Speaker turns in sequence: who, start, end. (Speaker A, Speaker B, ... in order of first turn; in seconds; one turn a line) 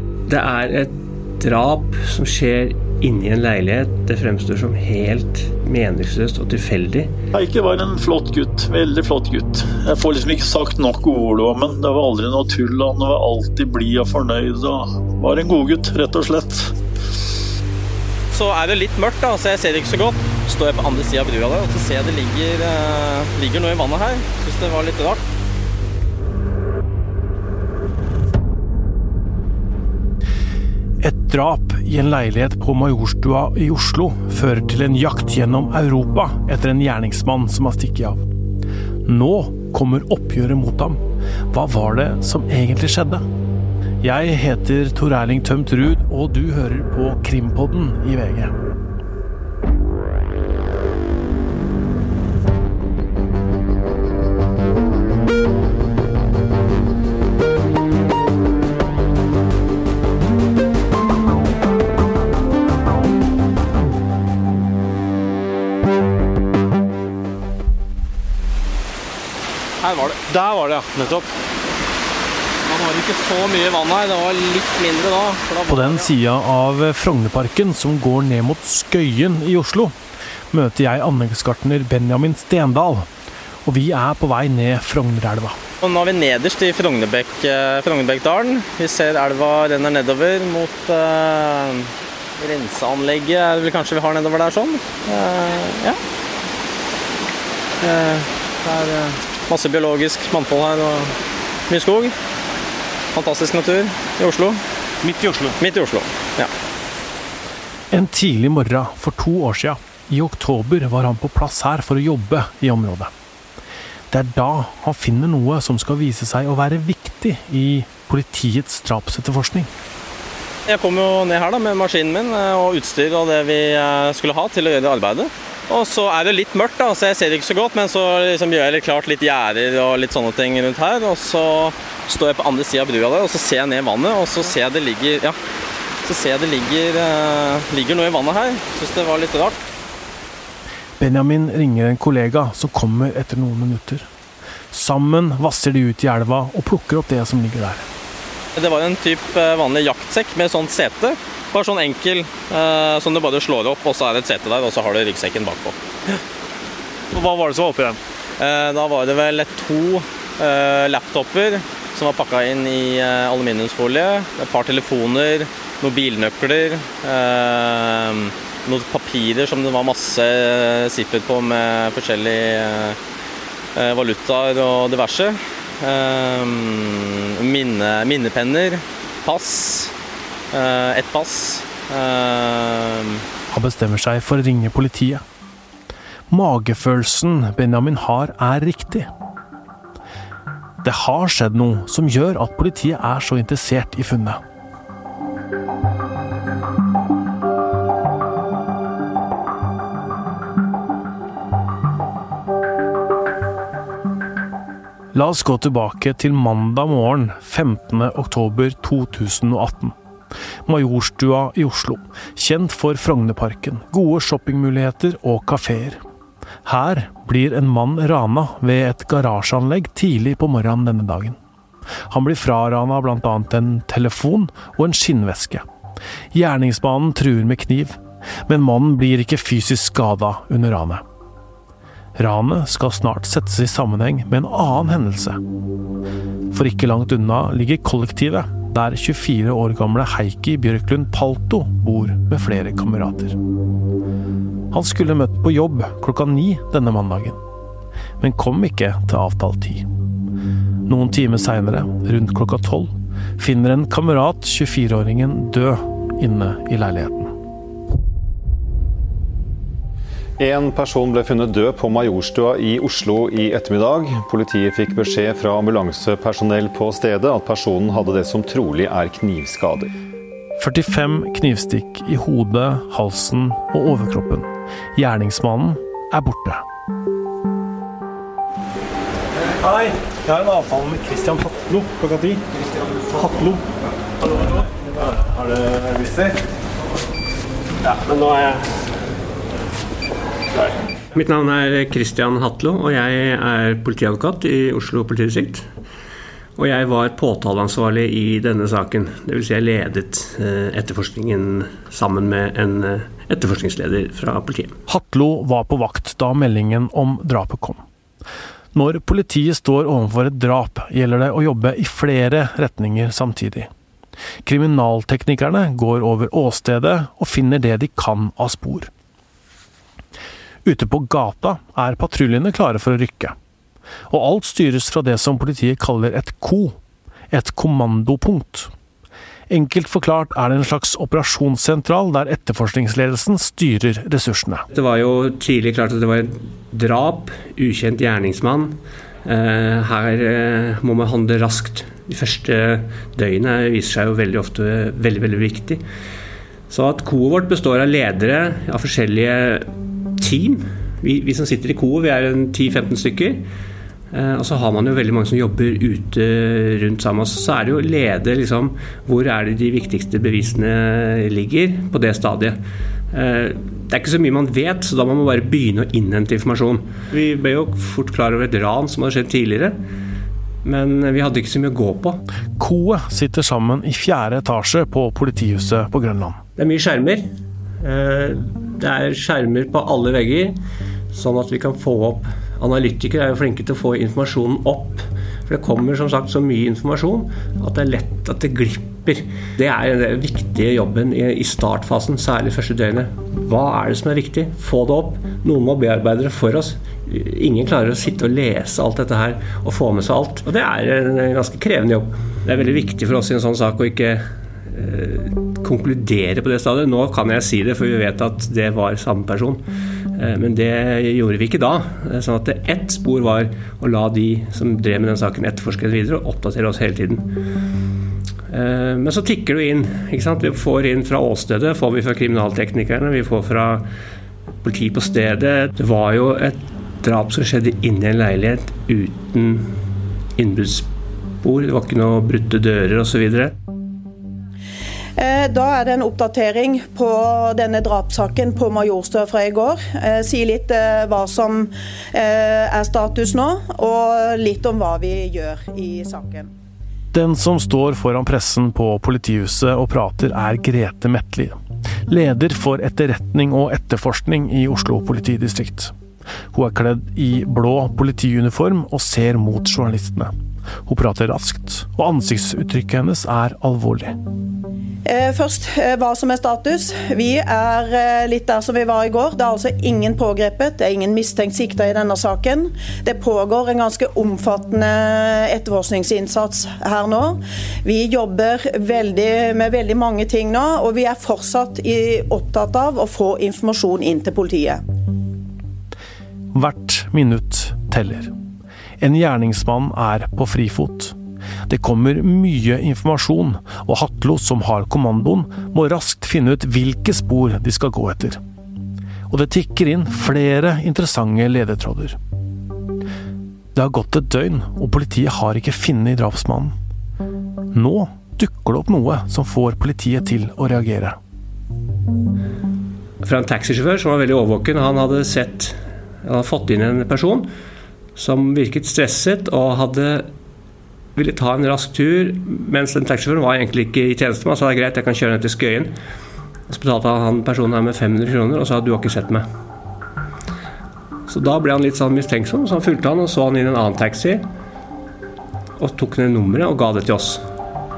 Speaker A: 0.3-7.2
Speaker B: 7.3-16.7
Speaker C: 18.3-25.2
Speaker D: 31.0-38.2
Speaker D: 39.0-43.3
Speaker D: 44.0-48.5
Speaker C: 69.8-70.5
Speaker C: 72.7-76.1
Speaker D: 75.7-80.0
Speaker D: 80.5-83.1
Speaker D: 83.6-85.6
Speaker C: 85.8-96.0
Speaker C: 97.8-101.1
Speaker C: 101.7-102.1
Speaker C: 103.1-104.6
Speaker C: 105.4-106.5
Speaker D: 107.9-113.1
Speaker D: 114.1-119.7
Speaker C: 120.7-135.4
Speaker C: 136.0-139.6
Speaker D: 141.0-144.1
Speaker D: 144.7-147.8
Speaker C: 148.6-155.8
Speaker D: 157.1-157.9
Speaker C: 158.4-173.0
Speaker C: 173.8-179.9
Speaker C: 180.5-183.2
Speaker D: 183.5-185.2
Speaker D: 186.3-189.1
Speaker D: 190.8-194.4
Speaker D: 205.1-209.9
Speaker D: 210.7-216.0
Speaker D: 216.6-221.4
Speaker D: 222.1-225.7
Speaker D: 226.3-231.0
Speaker D: 232.2-235.4
Speaker D: 236.5-243.4
Speaker D: 244.7-247.4
Speaker D: 248.2-249.9
Speaker D: 250.8-257.3
Speaker E: 260.4-269.9
Speaker D: 270.6-276.6
Speaker D: 279.6-282.4
Speaker D: 283.1-283.6
Speaker D: 284.9-286.4
Speaker A: 287.9-288.6
Speaker A: 291.1-295.7
Speaker A: 296.6-304.8
Speaker D: 304.9-307.8
Speaker D: 308.7-313.7
Speaker D: 314.4-318.9
Speaker D: 320.6-323.4
Speaker D: 324.1-326.8
Speaker D: 327.3-328.7
Speaker D: 329.5-334.7
Speaker A: 334.7-345.8
Speaker A: 346.7-353.4
Speaker A: 354.1-362.6
Speaker A: 363.1-369.8
Speaker A: 370.6-372.2
Speaker D: 372.6-376.4
Speaker A: 376.6-377.3
Speaker A: 377.8-380.6
Speaker A: 381.1-409.6
Speaker A: 410.1-417.3
Speaker A: 418.5-423.9
Speaker A: 424.6-429.7
Speaker A: 430.4-430.9
Speaker A: 431.4-433.5
Speaker F: 435.2-446.5
Speaker D: 447.1-455.9
Speaker D: 456.5-460.3
Speaker D: 460.8-464.1
Speaker F: 465.1-484.8
Speaker D: 486.5-488.3
Speaker D: 489.0-491.1
Speaker D: 491.7-498.4
Speaker D: 499.3-502.2
Speaker D: 503.7-506.8
Speaker D: 507.7-511.2
Speaker A: 513.2-517.5
Speaker A: 518.1-520.3
Speaker A: 521.1-525.9
Speaker A: 526.7-529.5
Speaker A: 531.3-534.5
Speaker A: 535.8-537.4